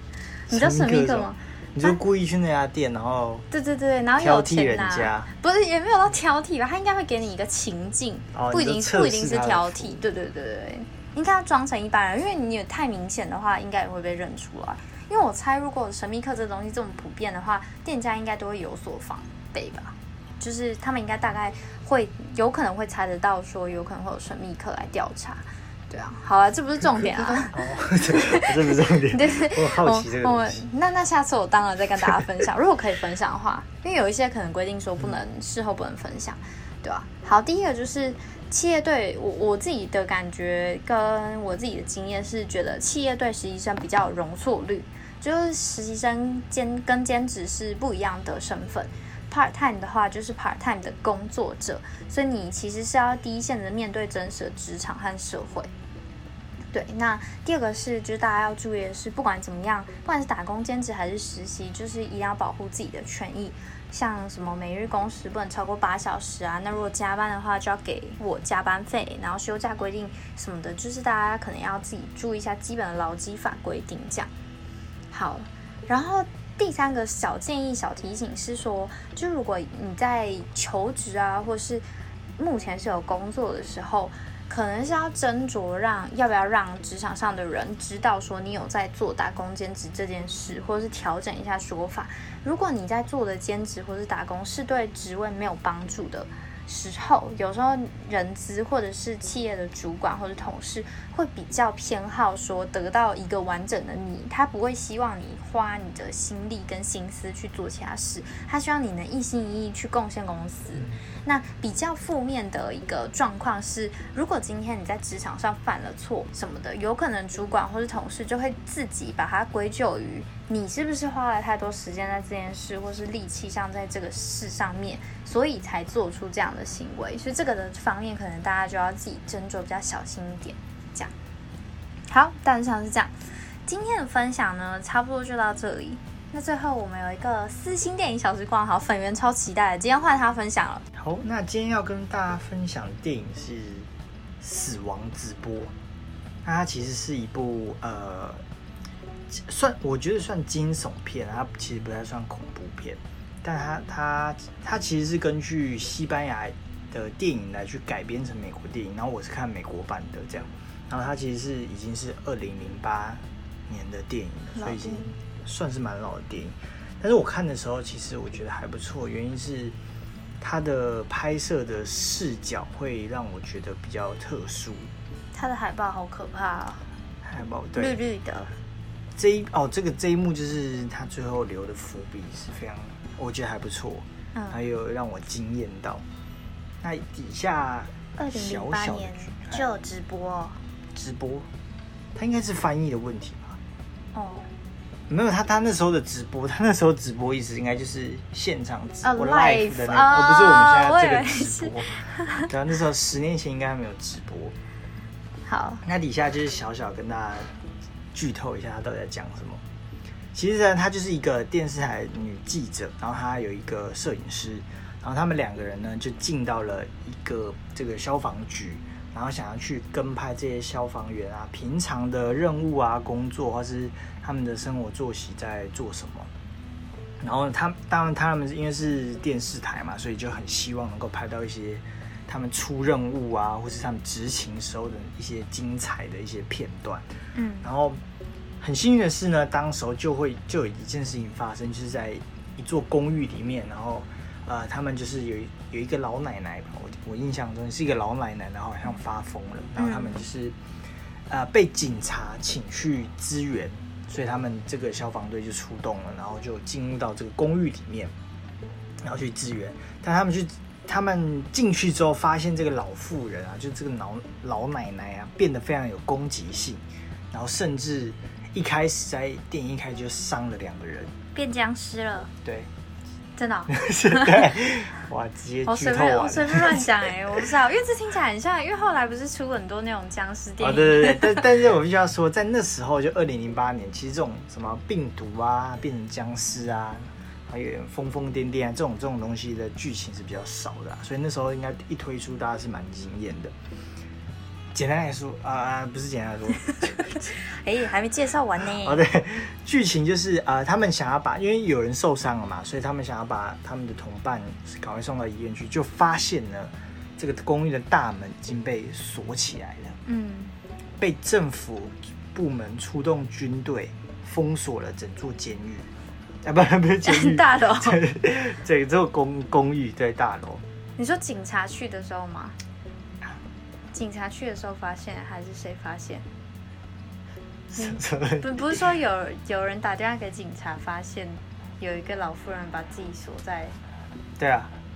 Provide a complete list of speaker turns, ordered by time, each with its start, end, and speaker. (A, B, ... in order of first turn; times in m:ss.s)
0:00.5-0:02.0 A
0:00.5-0:03.5 B
0:03.5-0:55.7 A
0:04.2-0:05.3 B
0:08.3-0:10.0 B
0:27.0-0:30.6 B
0:56.7-1:14.3 A
1:15.1-1:21.8 A
1:22.4-2:11.1 A
2:12.1-2:13.1 A
2:13.7-2:20.8 A
2:20.9-2:23.9 B
2:24.4-2:25.7 B
2:26.4-2:28.4 B
2:29.3-2:49.8 B
2:44.6-2:45.1 A
2:50.4-2:54.9 B
2:55.3-2:56.9 A
2:57.2-2:58.0 B
2:57.8-2:58.6 A
2:59.2-3:06.0 B
3:04.4-3:04.6 A
3:06.8-3:09.6 B
3:08.2-3:10.6 A
3:10.9-3:11.5 B
3:12.2-3:13.6 B
3:14.1-3:14.5 A
3:15.1-3:24.6 B
3:19.0-3:22.5 A
3:25.5-3:25.8 A
3:25.8-3:27.5 B
3:28.1-3:29.6 B
3:30.3-3:46.3 B
3:47.2-3:57.1 B
3:57.4-3:57.7 A
3:57.6-3:58.0 B
3:58.6-4:10.6 B
4:09.8-4:10.2 A
4:11.3-4:18.1 B
4:19.0-4:31.1 B
4:31.3-4:32.3 A
4:32.4-4:32.7 B
4:33.4-4:34.5 A
4:33.7-4:37.5 B
4:35.7-4:41.5 A
4:40.6-4:53.6 B
4:54.7-4:57.4 B
4:57.3-4:59.0 A
4:58.8-5:10.0 B
5:10.1-5:10.5 A
5:11.0-5:15.9 B
5:16.4-5:20.6 B
5:17.0-5:18.0 A
5:21.0-5:22.6 A
5:23.9-5:26.2 A
5:27.7-5:28.8 B
5:27.8-5:33.8 A
5:34.4-5:34.7 B